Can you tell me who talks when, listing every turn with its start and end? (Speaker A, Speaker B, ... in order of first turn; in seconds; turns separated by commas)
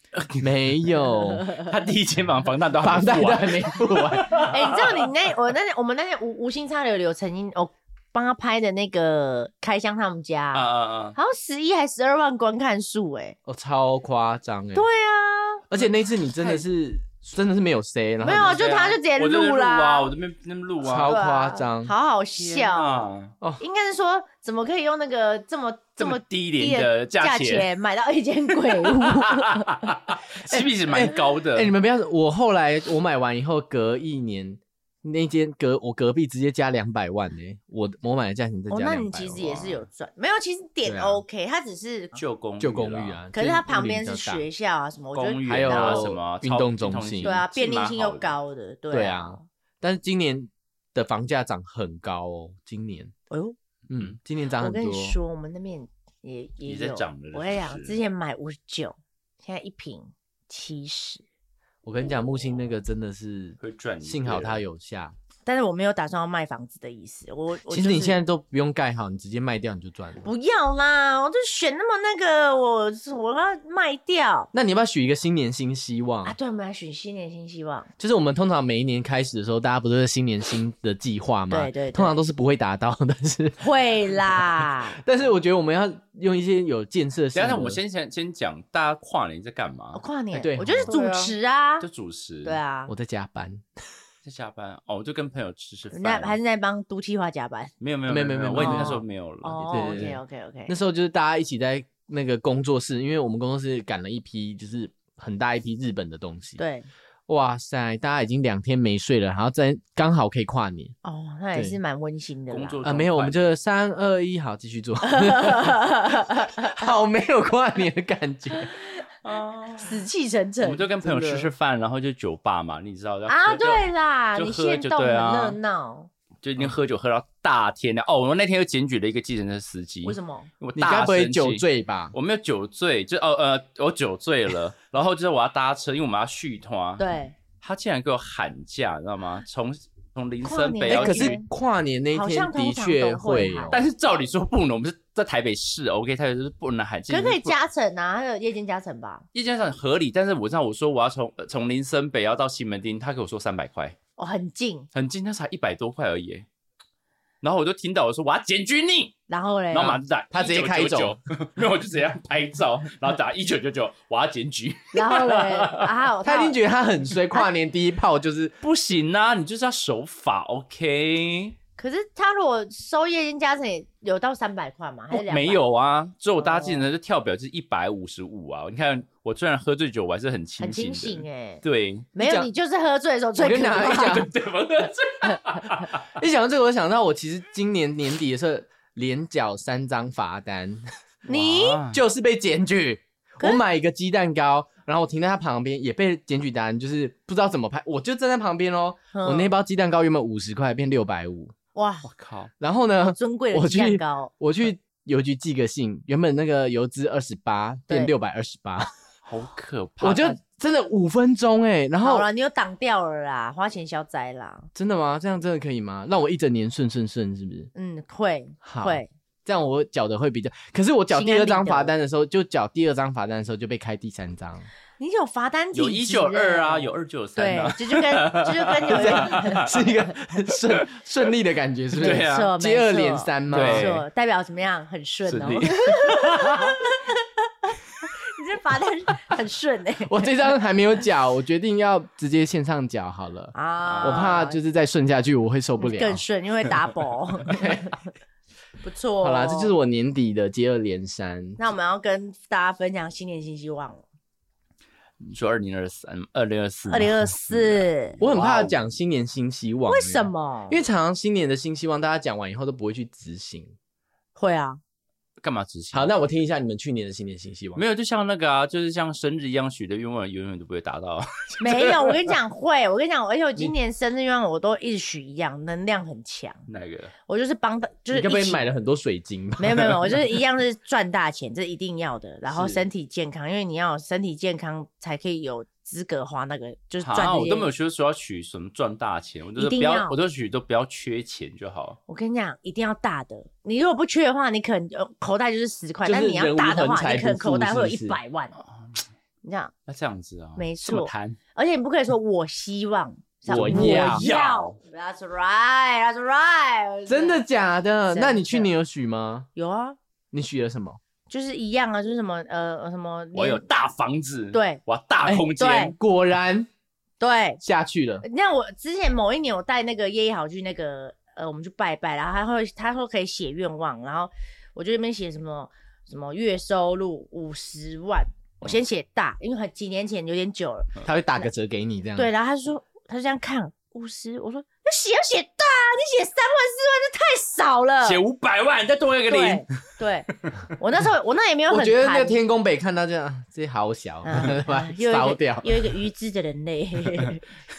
Speaker A: 0.1-0.5, Speaker B: 0.4-1.5, Speaker A: 1.6-5.0, Speaker B: 2.8-4.5, Speaker C: 4.4-13.4, Speaker A: 10.5-11.2, Speaker B: 13.5-14.9, Speaker C: 14.8-15.7, Speaker B: 15.7-18.6, Speaker C: 18.2-20.1, Speaker A: 18.3-21.2, Speaker B: 20.8-21.9, Speaker C: 21.1-23.1, Speaker A: 22.4-23.3, Speaker C: 23.6-29.9, Speaker A: 26.0-27.7, Speaker A: 28.9-31.7, Speaker B: 30.5-39.6, Speaker C: 38.7-42.2, Speaker B: 40.9-41.2, Speaker A: 42.2-43.2, Speaker B: 42.6-44.5, Speaker C: 43.3-46.1, Speaker A: 45.1-48.4, Speaker B: 45.5-47.4, Speaker C: 47.2-49.5, Speaker B: 48.9-53.1, Speaker C: 53.3-53.6, Speaker B: 53.9-55.2, Speaker C: 54.6-61.2, Speaker A: 56.6-58.0, Speaker B: 61.8-65.2, Speaker A: 63.6-64.6, Speaker C: 65.5-68.2, Speaker B: 67.7-70.2, Speaker C: 70.2-74.5, Speaker B: 74.5-76.4, Speaker C: 76.2-77.9, Speaker B: 78.0-87.8, Speaker C: 81.5-82.2, Speaker C: 83.6-85.0, Speaker A: 87.3-90.0, Speaker C: 89.9-91.9, Speaker B: 90.3-91.0, Speaker A: 90.9-92.6, Speaker C: 92.4-92.9, Speaker B: 92.9-93.7, Speaker A: 94.2-96.4, Speaker C: 95.9-97.7, Speaker A: 97.8-100.1, Speaker B: 98.1-99.0, Speaker C: 98.6-100.8, Speaker B: 99.7-106.6, Speaker C: 106.6-106.9, Speaker B: 107.3-111.0, Speaker C: 111.0-112.8, Speaker A: 112.5-113.5, Speaker B: 112.8-118.7, Speaker C: 115.0-116.8, Speaker A: 119.2-120.0, Speaker C: 119.8-120.9, Speaker A: 120.6-125.6, Speaker B: 121.0-121.5, Speaker C: 123.3-126.1, Speaker A: 126.4-137.1, Speaker C: 130.0-130.5, Speaker B: 130.8-132.1, Speaker C: 137.0-137.3, Speaker A: 137.6-141.4, Speaker C: 140.4-141.5, Speaker B: 140.9-143.8, Speaker C: 142.1-143.8, Speaker A: 143.7-147.6, Speaker C: 147.1-149.3, Speaker A: 149.3-154.0, Speaker C: 154.2-154.9, Speaker A: 154.9-156.5, Speaker A: 157.4-159.2, Speaker C: 159.3-160.0, Speaker A: 159.7-165.9, Speaker B: 160.3-161.2, Speaker C: 164.9-166.6, Speaker B: 166.2-168.6, Speaker A: 168.6-171.6, Speaker C: 171.8-175.6, Speaker A: 175.1-182.1, Speaker C: 176.4-176.9, Speaker C: 180.6-181.6, Speaker C: 182.1-184.2, Speaker B: 182.2-182.5, Speaker B: 183.4-184.3, Speaker A: 183.8-186.0, Speaker B: 186.1-201.5, Speaker C: 191.3-191.8, Speaker A: 191.4-192.0, Speaker C: 199.1-199.5, Speaker C: 201.8-202.1, Speaker A: 202.0-202.5, Speaker B: 202.6-208.9, Speaker C: 203.1-204.3, Speaker A: 209.3-210.4, Speaker B: 210.0-212.3, Speaker C: 212.0-214.7, Speaker B: 214.8-217.7, Speaker C: 217.8-219.1, Speaker B: 218.6-224.7, Speaker C: 221.1-221.9, Speaker C: 225.0-230.0, Speaker A: 225.7-229.8, Speaker B: 228.9-234.0, Speaker A: 230.6-230.9, Speaker A: 232.0-232.5, Speaker C: 232.0-240.3, Speaker A: 233.5-234.0, Speaker A: 235.3-236.7, Speaker B: 240.1-246.2, Speaker C: 243.5-244.6, Speaker A: 243.9-244.4, Speaker C: 245.8-248.0, Speaker B: 247.5-247.9, Speaker C: 248.8-249.7, Speaker B: 249.2-251.6, Speaker C: 251.6-254.1, Speaker A: 255.2-258.8, Speaker C: 256.9-258.2, Speaker B: 258.2-263.7, Speaker C: 259.9-260.8, Speaker C: 264.4-264.8, Speaker A: 265.4-266.1, Speaker B: 265.9-267.8, Speaker A: 267.8-272.3, Speaker C: 271.6-276.6, Speaker A: 276.7-277.1, Speaker C: 277.3-278.6, Speaker B: 278.1-280.2, Speaker C: 279.6-287.7, Speaker A: 287.0-292.0, Speaker C: 289.6-290.2, Speaker C: 292.1-298.6, Speaker B: 296.0-298.2, Speaker C: 299.4-299.7, Speaker A: 299.9-301.4, Speaker C: 300.6-307.4, Speaker B: 303.5-304.3, Speaker A: 303.5-304.8, Speaker B: 307.1-309.5, Speaker C: 308.1-308.7, Speaker C: 309.6-310.0, Speaker B: 310.3-311.0, Speaker C: 311.3-313.6, Speaker A: 313.3-316.0, Speaker C: 314.5-314.8, Speaker B: 315.2-316.7, Speaker C: 315.6-315.9, Speaker C: 317.2-317.6, Speaker B: 317.6-318.2, Speaker C: 318.2-331.5, Speaker B: 331.0-332.3, Speaker C: 332.2-338.2, Speaker A: 338.0-339.7, Speaker C: 339.3-342.4, Speaker B: 341.7-346.0, Speaker C: 344.2-347.4